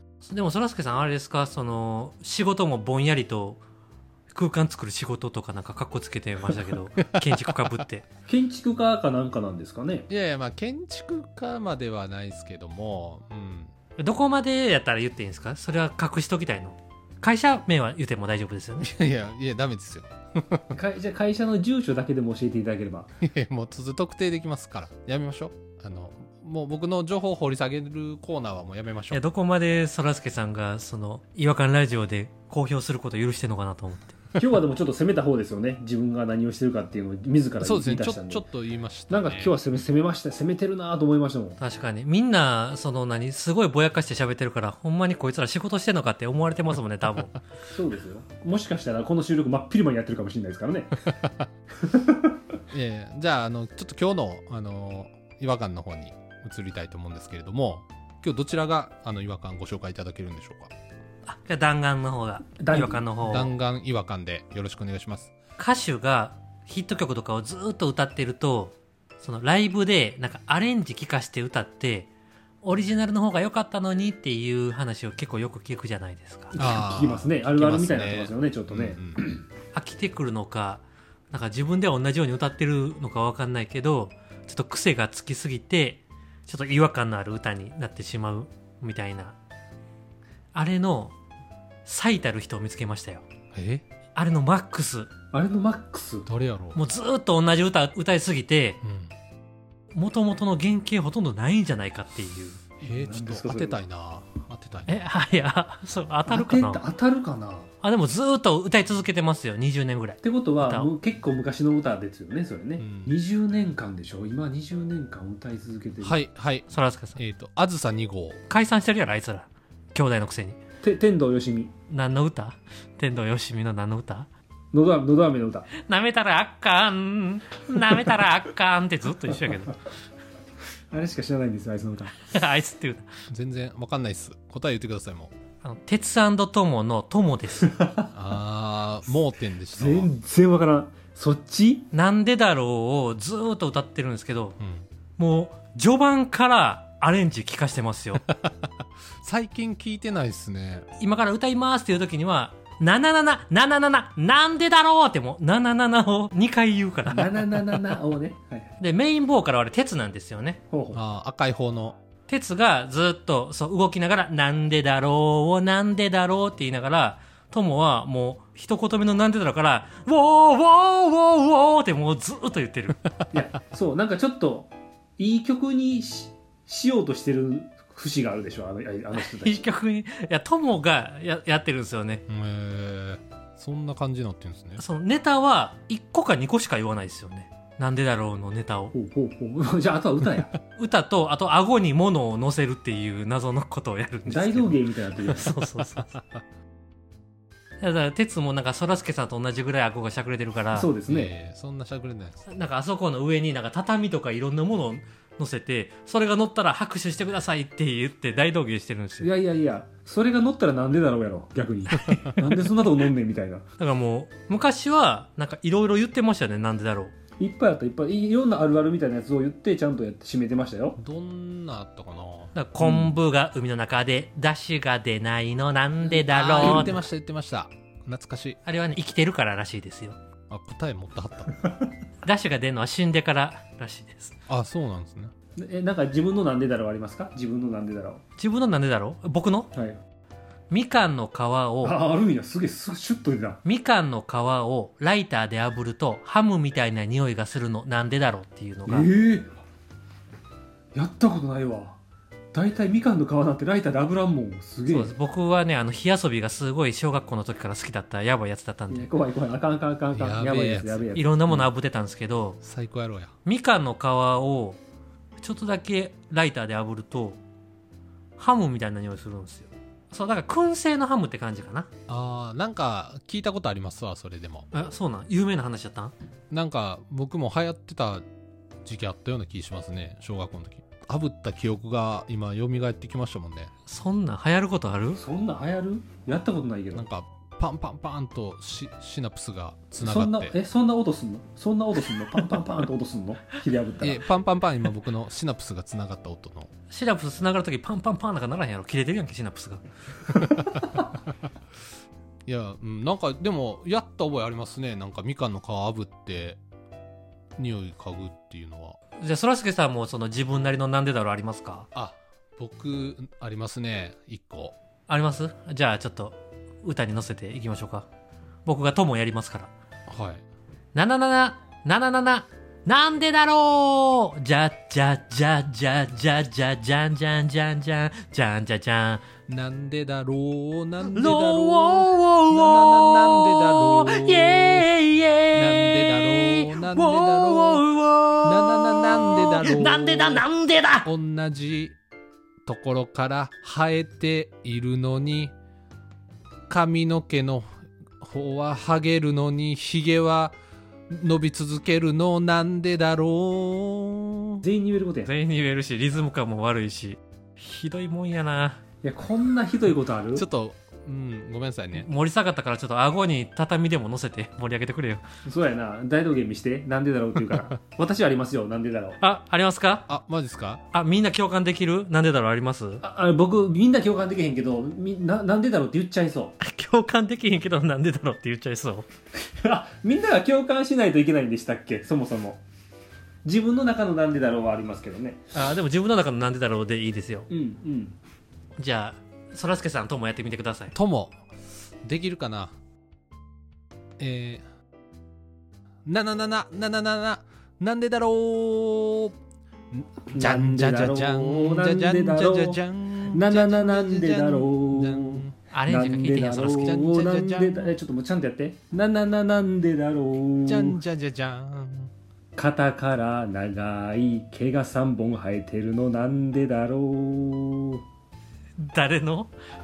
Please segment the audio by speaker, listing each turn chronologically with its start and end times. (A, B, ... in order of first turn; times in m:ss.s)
0:00.2-0:03.6 A
0:04.3-0:08.1 A
0:07.0-0:07.8 B
0:08.3-0:10.1 C
0:10.1-0:13.7 B
0:14.0-0:18.9 A
0:18.8-0:20.7 B
0:20.7-0:23.1 C
0:23.2-0:29.2 B
0:29.1-0:34.2 A
0:34.4-0:38.5 C
0:37.6-0:39.5 B
0:39.1-0:41.6 C
0:41.6-0:47.4 A
0:47.7-0:51.1 C
0:51.8-0:52.3 C
0:52.7-1:00.7 B
1:01.3-1:03.5 A
1:02.6-1:03.1 C
1:03.2-1:05.3 B
1:05.6-1:12.1 A
1:12.6-1:16.6 A
1:16.5-1:19.4 C
1:16.6-1:19.2 B
1:19.7-1:29.4 A
1:30.5-1:31.2 A
1:31.8-1:33.2 A
1:33.5-1:33.8 B
1:34.2-1:35.1 A
1:35.3-1:36.3 C
1:36.3-1:36.8 B
1:36.7-1:38.8 A
1:38.8-1:39.1 B
1:39.9-1:42.6 A
1:42.8-1:45.0 B
1:42.8-1:43.8 C
1:44.9-1:46.8 A
1:46.3-1:47.7 C
1:47.8-1:50.9 A
1:50.2-1:56.2 C
1:52.8-1:53.1 B
1:56.0-1:58.4 B
1:56.7-1:57.2 A
1:58.5-2:00.6 A
2:00.8-2:01.7 C
2:01.9-2:04.3 A
2:04.7-2:05.7 C
2:05.7-2:09.8 A
2:10.9-2:12.2 C
2:12.2-2:13.1 A
2:13.3-2:15.3 B
2:15.6-2:17.7 A
2:17.6-2:18.1 C
2:18.1-2:20.1 B
2:19.7-2:21.9 C
2:21.9-2:24.6 A
2:24.6-2:24.9 B
2:25.2-2:28.2 A
2:28.3-2:28.7 B
2:29.2-2:30.9 B
2:31.0-2:37.6 A
2:37.1-2:38.7 C
2:38.8-2:40.6 A
2:40.7-2:41.0 C
2:40.9-2:42.0 B
2:42.3-2:53.0 A
2:53.3-2:59.7 C
2:59.1-3:02.2 A
3:02.3-3:04.8 B
3:04.8-3:08.9 A
3:08.9-3:10.5 C
3:10.8-3:16.1 A
3:14.3-3:15.5 C
3:17.8-3:20.9 A
3:20.7-3:21.3 C
3:21.1-3:22.4 B
3:22.4-3:29.3 A
3:29.2-3:33.6 C
3:31.9-3:32.3 A
3:33.8-3:37.1 A
3:37.4-3:41.0 C
3:41.0-3:42.5 B
3:42.5-3:47.0 A
3:42.8-3:43.2 C
3:46.0-3:47.0 C
3:46.3-3:48.6 B
3:48.6-3:50.2 A
3:50.5-3:51.6 B
3:52.2-3:54.4 A
3:54.5-3:55.3 B
3:55.6-3:58.2 C
3:58.4-3:59.7 A
3:59.7-4:00.0 C
4:00.7-4:02.0 A
4:01.8-4:03.6 C
4:03.6-4:09.1 A
4:08.9-4:09.6 C
4:10.9-4:12.0 C
4:12.5-4:15.2 C
4:14.9-4:19.1 A
4:18.9-4:21.7 C
4:20.1-4:21.1 B
4:21.1-4:22.6 A
4:22.6-4:23.3 B
4:23.4-4:24.8 A
4:25.4-4:27.4 A
4:28.4-4:31.9 A
4:32.1-4:34.7 B
4:34.7-4:36.1 A
4:36.5-4:38.2 B
4:38.8-4:43.7 B
4:43.9-4:45.2 A
4:45.2-4:47.1 C
4:47.0-4:50.5 B
4:50.0-4:54.2 C
4:54.0-4:56.7 B
4:56.9-4:59.8 A
5:02.5-5:06.6 B
5:07.6-5:09.0 B
5:09.2-5:11.9 A
5:11.9-5:14.8 B
5:15.1-5:18.1 A
5:18.6-5:19.7 A
5:20.1-5:20.4 B
5:20.9-5:29.2 A
5:29.5-5:34.9 B
5:31.0-5:41.1 A
5:35.5-5:37.9 B
5:38.4-5:40.5 B
5:41.0-5:42.0 B
5:42.7-5:45.5 B
5:46.7-5:47.7 B
5:48.2-5:50.6 B
5:51.1-5:54.6 B
5:54.6-5:55.3 C
5:55.2-5:58.8 A
5:59.0-6:00.5 C
6:00.3-6:02.1 B
6:01.9-6:05.2 A
6:05.5-6:09.2 C
6:09.2-6:10.1 A
6:10.1-6:10.8 B
6:10.9-6:13.0 A
6:13.0-6:16.6 C
6:16.6-6:19.1 A
6:19.4-6:22.6 C
6:23.4-6:25.5 C
6:25.5-6:27.5 A
6:27.5-6:28.2 C
6:28.8-6:31.0 A
6:31.0-6:31.3 B
6:32.0-6:32.8 B
6:34.2-6:34.6 B
6:36.1-6:39.4 B
6:39.9-6:45.6 B
6:40.4-6:51.0 C
6:45.7-6:47.0 A
6:46.6-6:47.9 B
6:50.7-6:52.1 B
6:52.6-6:58.0 C
6:58.8-6:59.5 A